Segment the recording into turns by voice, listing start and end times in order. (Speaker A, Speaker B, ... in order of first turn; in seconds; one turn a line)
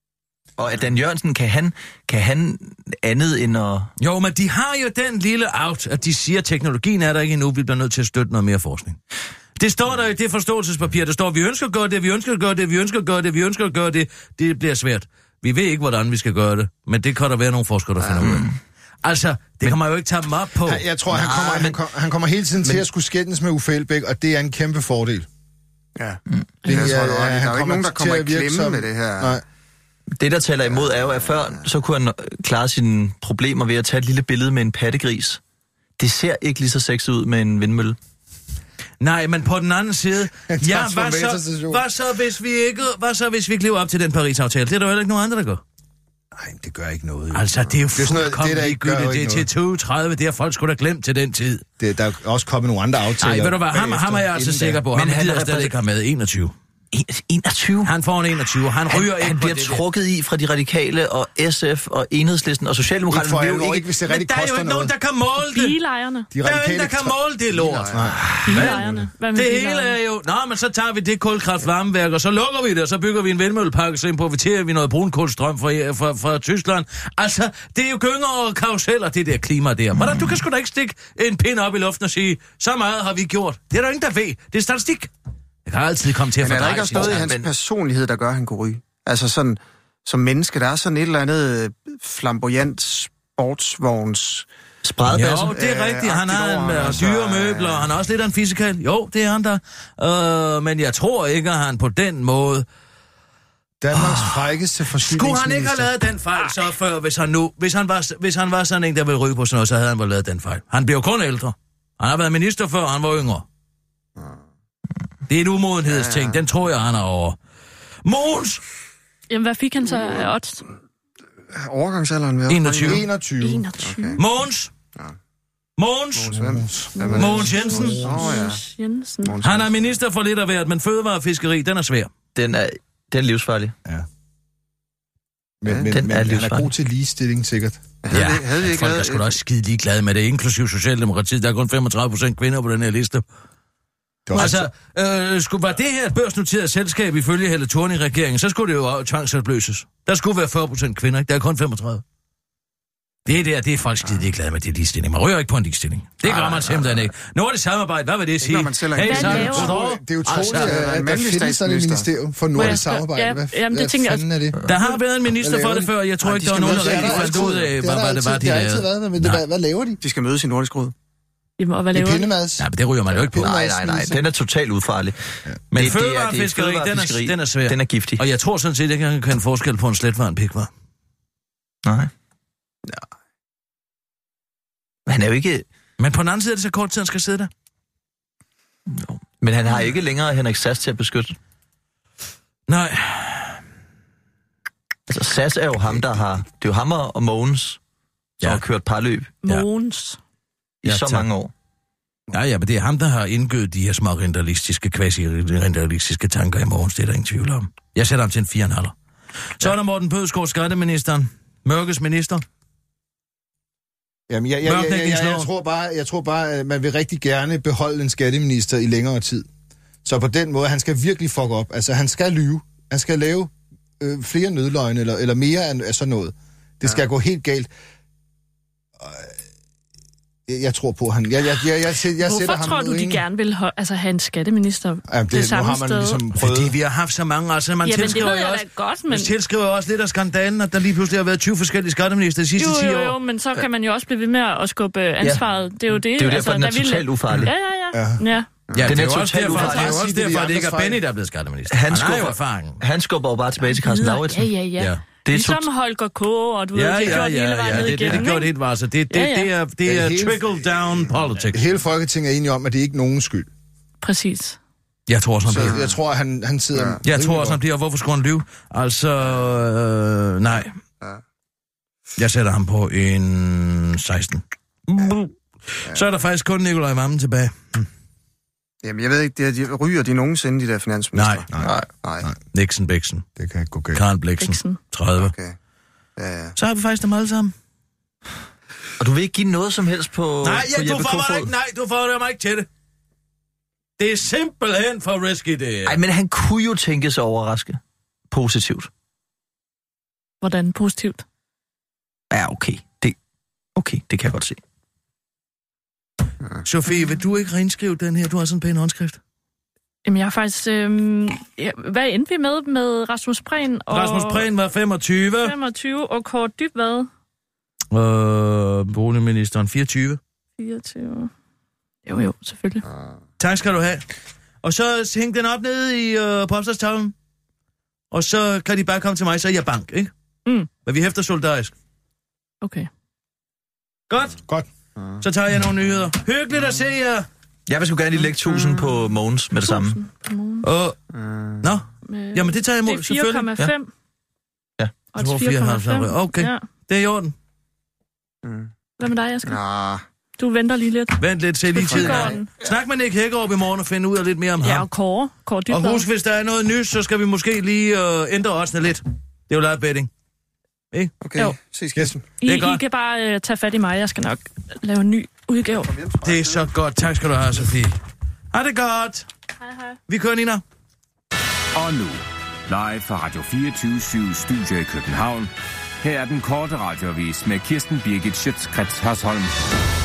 Speaker A: 0.6-3.9
Speaker B: 4.0-9.0
Speaker B: 9.6-18.5
Speaker A: 18.2-18.5
Speaker B: 19.0-20.8
Speaker C: 20.6-25.2
Speaker A: 21.1-21.8
Speaker D: 25.9-29.4
Speaker C: 26.6-29.4
Speaker A: 30.2-35.4
Speaker D: 30.7-31.7
Speaker A: 36.0-38.0
Speaker B: 39.0-45.6
Speaker C: 40.5-41.8
Speaker C: 46.3-49.5
Speaker B: 47.3-51.6
Speaker C: 51.8-54.8
Speaker B: 53.2-56.5
Speaker A: 54.9-55.7
Speaker A: 56.9-57.9
Speaker B: 57.8-59.8
Speaker A: 58.9-63.9
Speaker C: 63.1-64.9
Speaker B: 64.1-65.8
Speaker E: 65.4-66.3
Speaker C: 66.3-67.2
Speaker B: 66.4-68.8
Speaker D: 67.6-68.1
Speaker C: 67.9-68.4
Speaker E: 68.4-70.0
Speaker B: 69.3-85.1
Speaker B: 85.7-87.3
Speaker D: 86.4-94.5
Speaker A: 86.9-87.5
Speaker A: 94.8-95.5
Speaker B: 95.1-102.6
Speaker D: 95.5-97.9
Speaker C: 103.8-105.9
Speaker B: 103.9-104.4
Speaker B: 105.0-113.5
Speaker B: 115.3-117.4
Speaker D: 115.8-116.4
Speaker B: 118.0-118.6
Speaker E: 119.3-120.6
Speaker D: 121.5-123.1
Speaker B: 122.5-123.0
Speaker C: 122.8-123.7
Speaker E: 123.4-124.2
Speaker D: 123.8-124.2
Speaker B: 124.2-124.7
Speaker B: 125.8-126.3
Speaker D: 126.1-128.6
Speaker C: 126.3-128.2
Speaker E: 127.0-129.4
Speaker B: 127.1-128.1
Speaker D: 129.2-129.8
Speaker B: 129.4-132.1
Speaker A: 132.3-133.7
Speaker C: 135.6-137.8
Speaker D: 135.7-135.9
Speaker A: 135.9-136.7
Speaker D: 138.0-139.3
Speaker B: 138.1-143.2
Speaker C: 144.2-144.7
Speaker B: 144.3-152.0
Speaker B: 153.2-160.7
Speaker D: 156.4-156.9
Speaker D: 158.4-159.8
Speaker E: 159.0-159.7
Speaker C: 159.3-164.6
Speaker D: 160.3-162.1
Speaker E: 162.5-164.2
Speaker B: 164.6-169.4
Speaker C: 165.4-165.9
Speaker D: 166.2-167.6
Speaker C: 166.5-170.0
Speaker D: 170.0-170.9
Speaker E: 171.6-172.3
Speaker C: 171.9-174.2
Speaker B: 172.6-173.5
Speaker A: 173.4-178.2
Speaker B: 175.7-180.7
Speaker A: 181.8-182.1
Speaker A: 185.1-185.7
Speaker B: 186.0-187.5
Speaker A: 188.9-191.3
Speaker B: 192.7-193.6
Speaker A: 195.1-197.8
Speaker A: 198.4-199.4
Speaker E: 199.4-200.2
Speaker A: 200.8-201.5
Speaker B: 200.8-201.3
Speaker B: 202.3-208.9
Speaker B: 209.6-212.4
Speaker C: 214.3-219.4
Speaker B: 214.6-215.5
Speaker C: 220.0-227.7
Speaker C: 229.0-229.3
Speaker C: 230.5-233.2
Speaker E: 232.2-236.2
Speaker C: 235.1-236.8
Speaker B: 236.3-243.2
Speaker E: 237.8-239.3
Speaker E: 242.6-248.5
Speaker A: 245.9-247.5
Speaker C: 247.9-248.2
Speaker B: 248.7-252.8
Speaker C: 248.8-251.0
Speaker A: 248.8-250.0
Speaker A: 251.7-254.5
Speaker E: 253.6-258.5
Speaker A: 255.2-255.7
Speaker B: 256.7-261.7
Speaker E: 259.1-259.5
Speaker C: 259.8-260.7
Speaker C: 261.5-263.5
Speaker E: 264.0-264.6
Speaker B: 265.1-265.8
Speaker C: 265.5-267.6
Speaker D: 265.5-265.9
Speaker B: 267.0-270.7
Speaker B: 272.2-277.9
Speaker D: 278.8-281.5
Speaker B: 281.1-281.4
Speaker C: 281.5-282.4
Speaker A: 281.6-281.9
Speaker D: 282.0-282.3
Speaker B: 282.5-283.2
Speaker C: 283.4-284.0
Speaker B: 283.9-285.3
Speaker E: 284.4-284.8
Speaker D: 285.2-285.6
Speaker D: 286.2-286.5
Speaker B: 286.6-287.5
Speaker A: 289.0-291.5
Speaker B: 290.4-292.7
Speaker B: 294.0-296.0
Speaker A: 295.9-297.8
Speaker A: 298.3-298.9
Speaker E: 300.4-301.2
Speaker A: 302.3-303.1
Speaker A: 303.8-304.6
Speaker B: 306.6-309.2
Speaker E: 310.0-314.5
Speaker B: 313.9-315.5
Speaker E: 315.4-317.1
Speaker B: 317.9-320.2
Speaker E: 320.6-321.3
Speaker E: 322.1-322.8
Speaker B: 323.4-324.0
Speaker B: 324.6-327.1
Speaker B: 328.1-330.1
Speaker B: 330.8-331.7
Speaker E: 332.6-332.9
Speaker B: 334.1-334.4
Speaker B: 335.2-337.2
Speaker A: 337.7-340.0
Speaker D: 338.5-338.8
Speaker E: 339.6-340.7
Speaker B: 340.6-340.9
Speaker D: 341.1-341.6
Speaker B: 341.6-343.5
Speaker E: 342.1-343.9
Speaker E: 345.1-346.6
Speaker B: 345.2-347.3
Speaker D: 348.4-348.7
Speaker E: 349.0-349.6
Speaker D: 349.4-350.0
Speaker E: 350.4-352.5
Speaker B: 351.2-354.9
Speaker D: 351.8-352.4
Speaker E: 354.6-356.1
Speaker B: 355.7-360.1
Speaker D: 361.2-362.3
Speaker E: 362.4-365.9
Speaker B: 362.4-362.8
Speaker D: 366.0-366.6
Speaker B: 366.2-367.9
Speaker B: 368.5-369.2
Speaker E: 369.6-369.9
Speaker B: 370.1-370.6
Speaker F: 371.7-375.5
Speaker F: 376.0-379.5